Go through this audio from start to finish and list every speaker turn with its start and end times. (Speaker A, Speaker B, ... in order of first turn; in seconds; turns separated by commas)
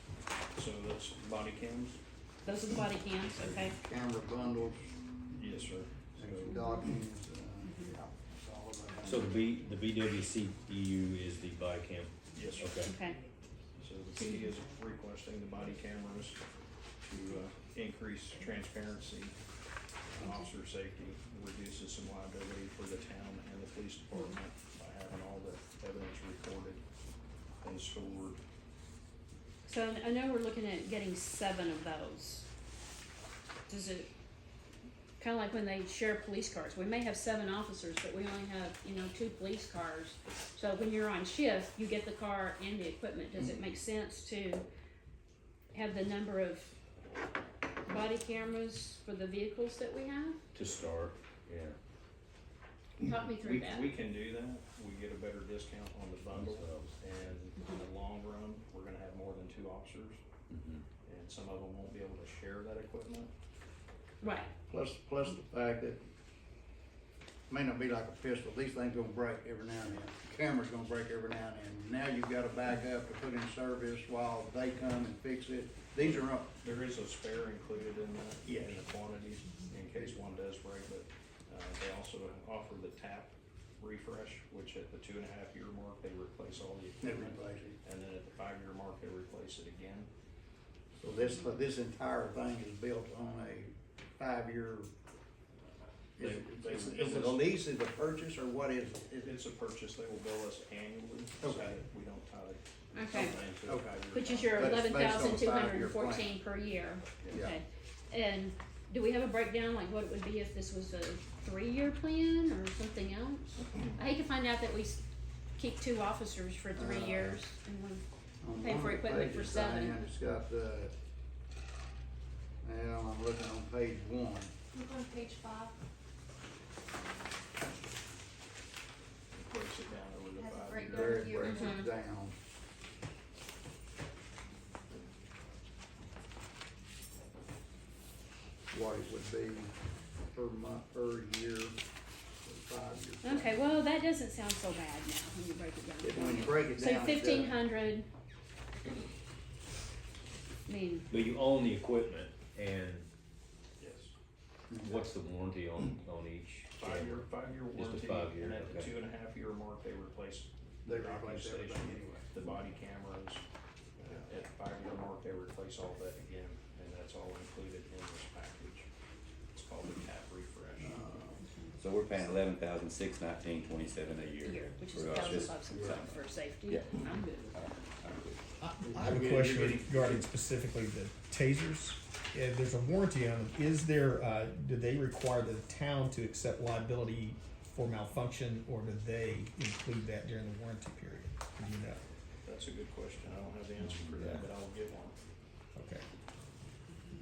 Speaker A: 0.5-2.0, Speaker B: 2.5-3.8, Speaker C: 3.4-4.9, Speaker A: 5.3-6.6, Speaker C: 6.2-9.5, Speaker B: 6.5-6.9, Speaker B: 7.6-7.9, Speaker D: 9.0-12.9, Speaker A: 12.3-12.8, Speaker B: 12.8-13.2, Speaker A: 13.8-16.4, Speaker B: 14.2-14.5, Speaker A: 17.0-19.4, Speaker A: 20.1-26.8, Speaker A: 27.6-28.4, Speaker B: 29.6-32.5, Speaker B: 33.7-34.1, Speaker B: 35.2-44.6, Speaker B: 45.7-46.8, Speaker B: 47.9-50.4, Speaker D: 50.5-51.8, Speaker B: 53.0-53.9, Speaker A: 53.3-60.2, Speaker D: 56.3-57.0, Speaker D: 60.5-60.9, Speaker A: 61.0-63.3, Speaker B: 64.2-64.5, Speaker C: 64.7-66.0, Speaker C: 67.5-76.5, Speaker A: 76.0-90.1, Speaker C: 78.5-78.8, Speaker C: 87.0-87.8, Speaker C: 91.0-94.9, Speaker A: 96.2-97.5, Speaker C: 96.2-99.3, Speaker A: 99.2-104.8, Speaker C: 101.4-101.8, Speaker B: 102.9-103.3, Speaker C: 103.6-104.0, Speaker B: 104.1-115.0, Speaker C: 104.5-106.3, Speaker A: 107.2-107.5, Speaker C: 107.3-107.6, Speaker B: 115.6-120.0, Speaker C: 116.7-117.4, Speaker C: 118.4-120.9, Speaker C: 122.6-124.5, Speaker E: 124.7-125.7, Speaker A: 129.3-131.4, Speaker E: 130.4-131.8, Speaker C: 130.8-132.4, Speaker B: 131.4-131.9, Speaker C: 138.7-139.7, Speaker C: 140.3-141.8, Speaker C: 142.4-143.6, Speaker B: 143.2-148.1, Speaker C: 146.0-147.6, Speaker B: 150.7-151.1, Speaker D: 151.1-153.1, Speaker A: 153.8-154.1, Speaker C: 154.7-155.1, Speaker D: 154.8-158.9, Speaker A: 156.8-163.4, Speaker C: 160.8-162.3, Speaker A: 164.0-168.9, Speaker A: 169.5-171.1, Speaker C: 170.8-171.4, Speaker B: 171.4-171.7, Speaker F: 171.8-178.4, Speaker B: 174.4-177.5, Speaker G: 178.6-192.0, Speaker C: 178.8-180.3, Speaker A: 192.4-195.2, Speaker G: 194.2-194.5, Speaker G: 195.8-196.1